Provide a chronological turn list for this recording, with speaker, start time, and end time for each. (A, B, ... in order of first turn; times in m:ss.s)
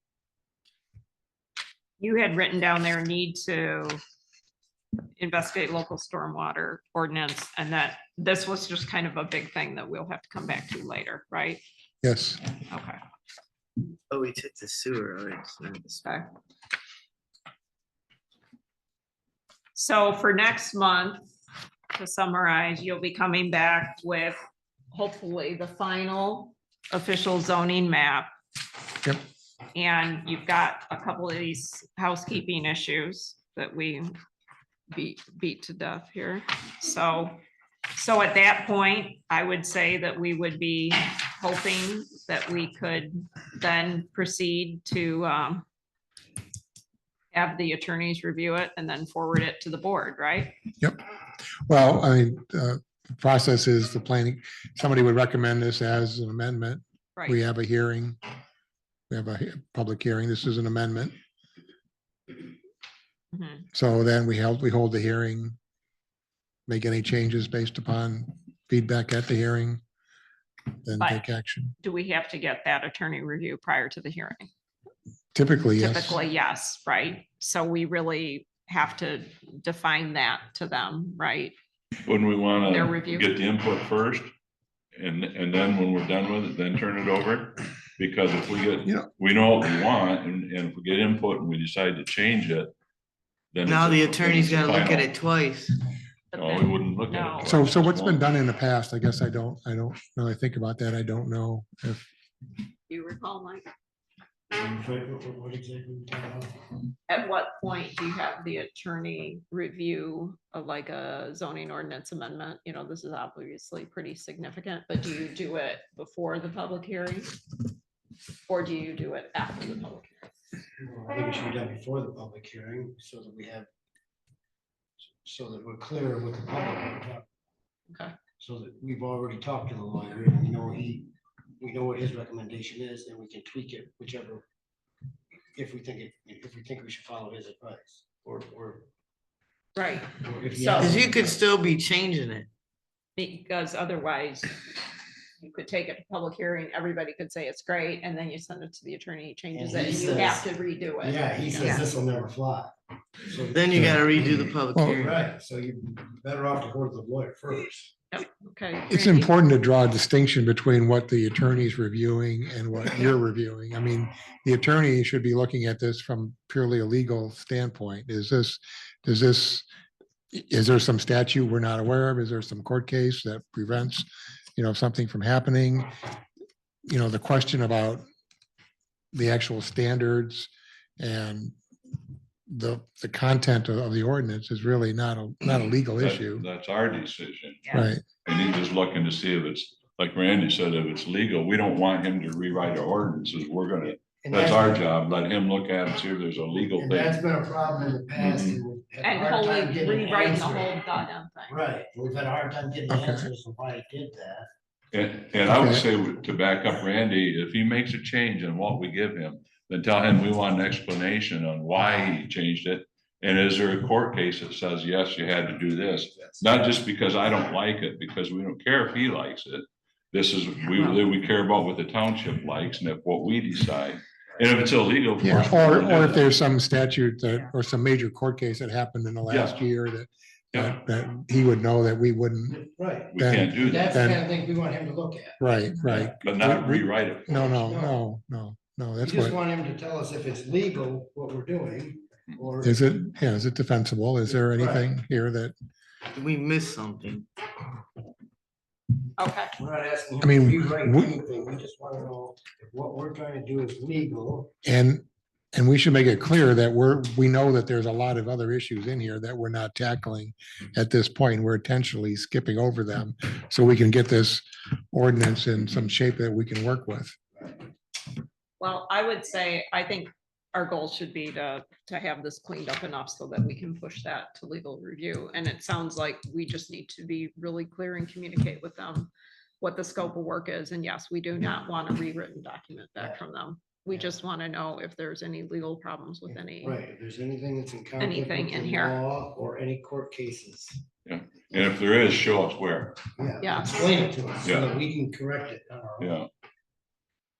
0:02.0-0:04.0 A
0:05.2-0:11.6 A
0:12.0-0:12.4 B
0:12.7-0:13.0 A
0:14.1-0:16.0 C
0:16.0-0:16.3 A
0:19.8-0:21.2 A
0:21.9-0:24.4 A
0:24.9-0:28.3 A
0:29.7-0:34.1 A
0:34.9-0:37.4 A
0:37.9-0:45.6 A
0:47.3-0:50.6 A
0:51.7-0:58.2 B
0:59.1-1:01.1 B
1:03.3-1:03.7 A
1:03.7-1:05.6 B
1:06.7-1:09.8 B
1:10.8-1:11.7 B
1:11.0-1:11.2 A
1:11.8-1:14.5 A
1:15.4-1:16.2 B
1:15.8-1:21.5 A
1:22.0-1:24.3 D
1:22.7-1:23.3 A
1:25.0-1:32.7 D
1:33.5-1:35.1 D
1:33.7-1:35.8 C
1:36.3-1:37.6 A
1:36.3-1:38.3 D
1:37.4-1:42.0 B
1:42.9-1:43.6 A
1:44.5-1:46.5 E
1:47.1-1:57.3 A
1:58.5-2:00.3 A
2:00.8-2:03.7 E
2:05.1-2:07.2 E
2:08.4-2:14.4 E
2:15.5-2:18.9 E
2:19.8-2:21.0 A
2:20.2-2:21.4 E
2:20.7-2:22.5 C
2:23.2-2:24.6 A
2:25.4-2:31.9 A
2:29.5-2:30.4 E
2:31.0-2:34.2 E
2:33.5-2:35.2 C
2:33.7-2:35.0 B
2:35.0-2:37.9 E
2:38.1-2:39.3 A
2:38.9-2:49.7 B
2:50.3-2:55.9 B
2:56.9-2:58.0 B
2:59.1-3:01.6 B
3:02.5-3:06.5 B
3:06.0-3:17.2 D
3:07.7-3:08.0 B
3:14.2-3:14.8 E
3:16.6-3:20.8 E
3:18.1-3:18.6 D
3:19.0-3:21.6 A
3:21.5-3:24.5 E
3:22.9-3:23.3 B
3:24.9-3:46.3 D
3:25.4-3:25.8 B
3:45.2-3:52.6 B
3:49.3-3:49.6 D
3:52.5-3:55.4 E
3:53.1-3:53.9 D
3:53.2-3:54.2 B
3:55.4-3:59.4 B
3:55.9-3:57.5 D
3:57.6-3:58.0 E
3:59.0-4:03.0 E
4:02.6-4:05.6 B
4:04.3-4:04.9 E
4:06.1-4:07.3 C
4:09.2-4:09.5 A
4:09.6-4:14.5 E
4:10.2-4:11.2 B
4:14.6-4:27.2 B
4:28.6-4:46.8 A
4:46.6-4:50.8 E
4:48.0-4:49.0 A
4:51.0-4:53.0 D
4:53.2-4:56.2 E
4:53.4-4:53.9 A
4:54.4-4:54.7 D
4:56.0-4:56.3 D